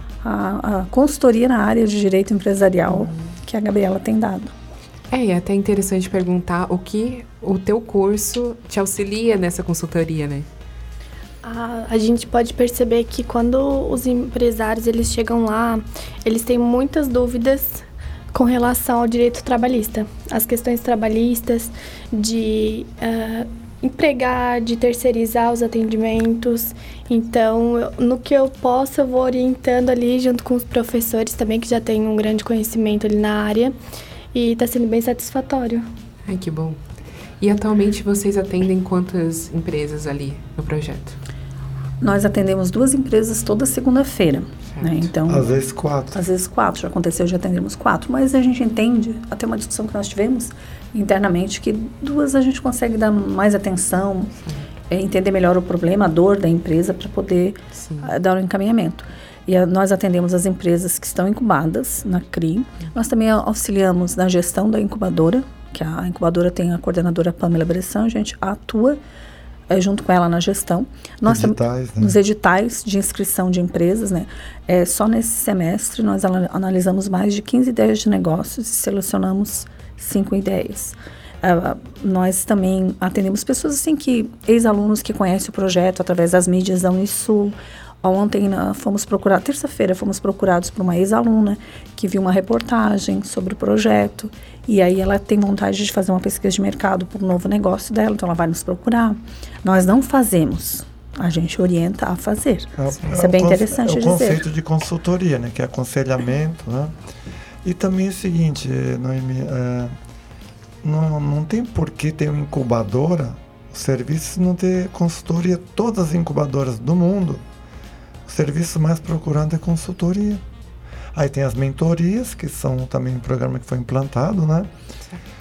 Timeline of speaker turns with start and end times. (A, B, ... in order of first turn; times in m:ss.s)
0:00.2-0:04.5 A
0:05.1-0:10.5 B
0:11.4-0:33.8 C
0:34.3-0:35.8 C
0:36.3-0:36.8 B
0:37.4-0:41.2 B
0:42.0-0:45.5 A
0:44.7-0:45.1 B
0:45.3-0:46.2 D
0:46.1-0:54.3 A
0:54.4-0:54.7 B
0:54.9-1:09.0 A
0:57.7-0:58.1 B
1:09.7-1:44.5 A
1:11.2-1:12.2 D
1:42.8-1:46.9 D
1:47.6-1:49.9 D
1:50.8-1:57.4 D
1:58.3-2:00.4 D
2:01.1-2:04.7 D